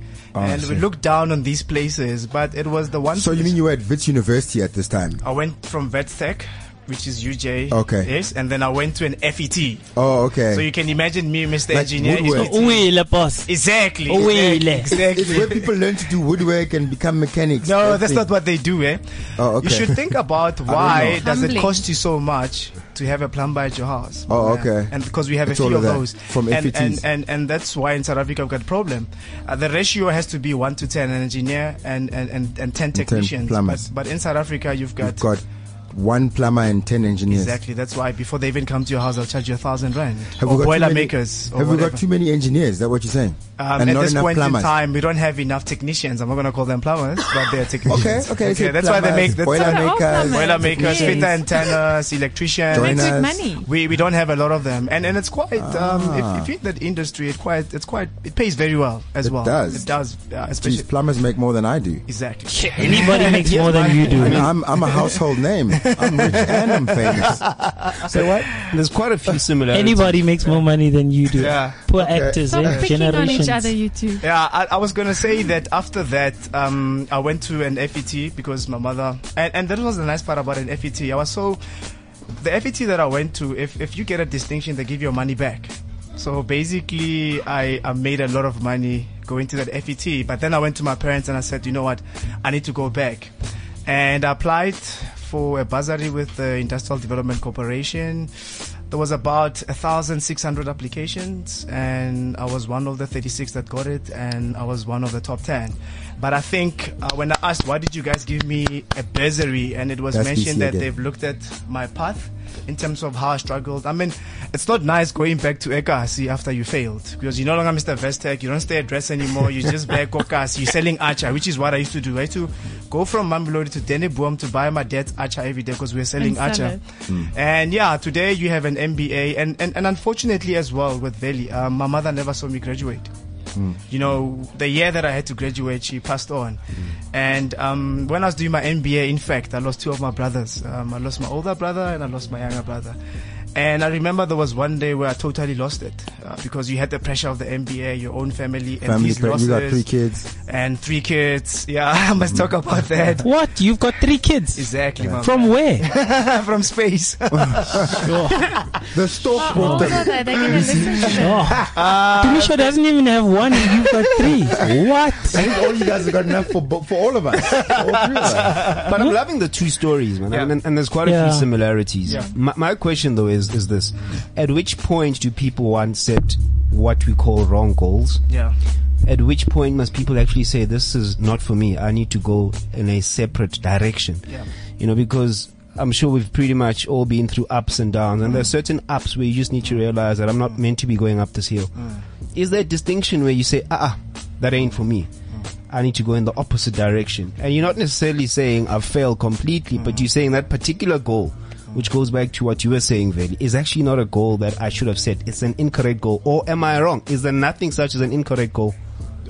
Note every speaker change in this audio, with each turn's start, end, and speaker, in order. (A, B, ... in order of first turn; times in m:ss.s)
0:00.3-0:00.8 A
0:00.4-0:03.6 B
0:03.1-0:05.2 A
0:05.2-0:09.9 B
0:07.7-0:08.1 A
0:10.0-0:10.7 A
0:10.5-0:12.9 B
0:11.7-0:12.5 A
0:12.3-0:13.5 C
0:13.4-0:15.8 B
0:14.1-0:15.0 C
0:14.9-0:18.3 A
0:17.6-0:35.3 B
0:19.4-0:20.0 A
0:20.7-0:21.3 A
0:21.2-0:21.8 D
0:24.3-0:24.9 A
0:25.4-0:27.0 A
0:32.9-0:33.9 A
0:35.0-0:37.6 A
0:37.3-0:42.0 B
0:40.4-0:44.7 A
0:43.6-1:00.9 B
0:47.8-0:51.4 A
0:49.5-0:51.7 D
0:52.7-0:53.4 A
0:52.7-0:53.7 D
0:55.6-0:56.5 A
0:59.2-0:59.9 A
1:00.6-1:02.0 A
1:02.1-1:08.7 B
1:02.5-1:04.5 C
1:02.9-1:04.5 E
1:04.2-1:08.6 A
1:08.7-1:10.2 E
1:09.7-1:13.7 C
1:11.4-1:11.8 B
1:12.0-1:12.4 A
1:12.5-1:14.2 D
1:14.2-1:21.6 B
1:22.4-1:33.3 B
1:33.9-2:13.1 B
1:50.1-1:50.9 A
2:06.2-2:06.8 D
2:13.6-2:13.8 A
2:13.9-2:23.0 B
2:23.6-2:29.8 B
2:28.8-2:30.3 A
2:30.4-2:33.3 B
2:33.2-2:35.9 C
2:34.6-2:38.7 B
2:37.3-2:38.1 A
2:37.9-2:38.5 C
2:38.9-2:41.6 A
2:39.4-2:41.5 D
2:39.5-2:39.9 C
2:41.2-2:45.4 C
2:41.7-2:42.7 B
2:43.7-2:44.3 B
2:45.3-2:48.7 A
2:45.4-2:45.8 B
2:47.6-2:48.8 B
2:48.6-2:58.2 E
2:51.0-2:51.5 C
2:58.3-2:58.6 B
2:59.0-3:15.1 E
3:11.8-3:12.0 B
3:15.7-3:28.8 E
3:19.8-3:20.0 B